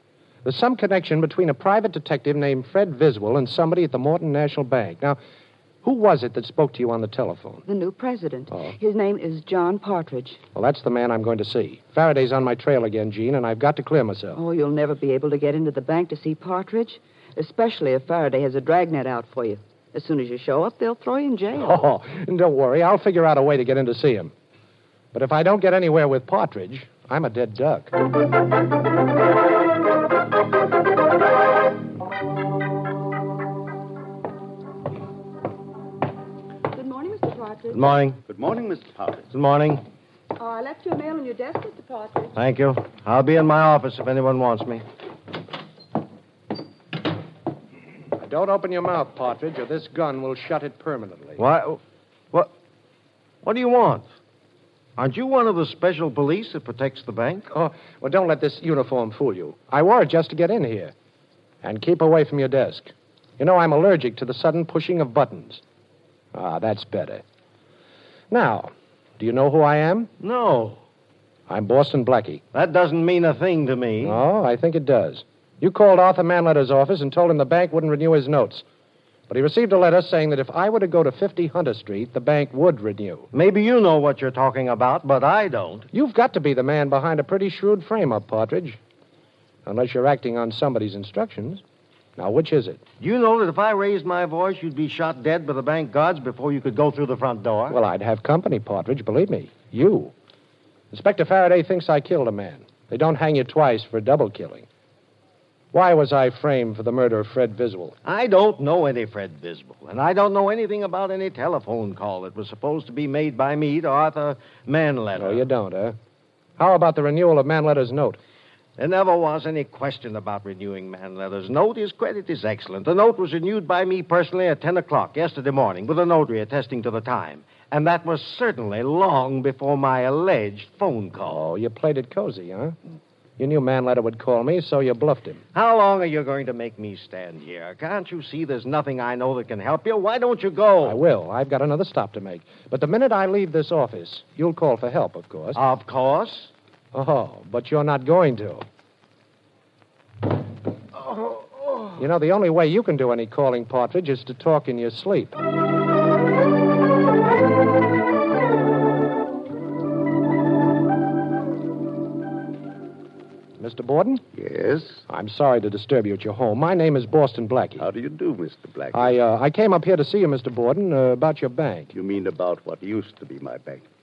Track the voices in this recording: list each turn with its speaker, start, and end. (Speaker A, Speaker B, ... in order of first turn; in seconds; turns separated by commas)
Speaker A: 0.4-5.2, Speaker A: 5.8-7.6, Speaker B: 7.7-10.4, Speaker A: 10.5-14.4, Speaker B: 14.3-21.8, Speaker A: 21.6-24.3, Speaker A: 25.1-27.9, Speaker B: 36.7-37.8, Speaker C: 37.7-38.2, Speaker D: 38.2-39.3, Speaker C: 39.3-39.8, Speaker B: 40.4-42.3, Speaker C: 42.3-44.8, Speaker A: 48.1-51.4, Speaker C: 51.4-51.8, Speaker C: 53.4-54.1, Speaker C: 55.0-57.5, Speaker A: 57.5-60.9, Speaker A: 61.6-65.6, Speaker A: 66.3-67.2, Speaker A: 68.3-70.1, Speaker C: 70.2-70.8, Speaker A: 71.5-72.4, Speaker C: 72.5-74.2, Speaker A: 74.0-78.6, Speaker A: 79.3-83.3, Speaker C: 83.3-85.9, Speaker A: 85.9-88.8, Speaker A: 89.7-91.6, Speaker A: 92.2-92.8, Speaker C: 93.0-97.8, Speaker A: 97.7-100.1, Speaker A: 100.9-104.7, Speaker A: 105.7-107.9, Speaker C: 108.0-115.4, Speaker A: 115.2-116.0, Speaker A: 116.6-118.2, Speaker C: 118.8-131.4, Speaker A: 131.2-132.8, Speaker A: 133.4-135.4, Speaker C: 135.5-141.0, Speaker A: 140.8-145.6, Speaker C: 145.5-146.5, Speaker A: 146.9-148.6, Speaker A: 151.9-155.4, Speaker A: 163.6-164.2, Speaker D: 164.3-165.1, Speaker A: 165.1-167.8, Speaker D: 167.8-169.2, Speaker A: 168.9-171.9, Speaker D: 171.9-173.8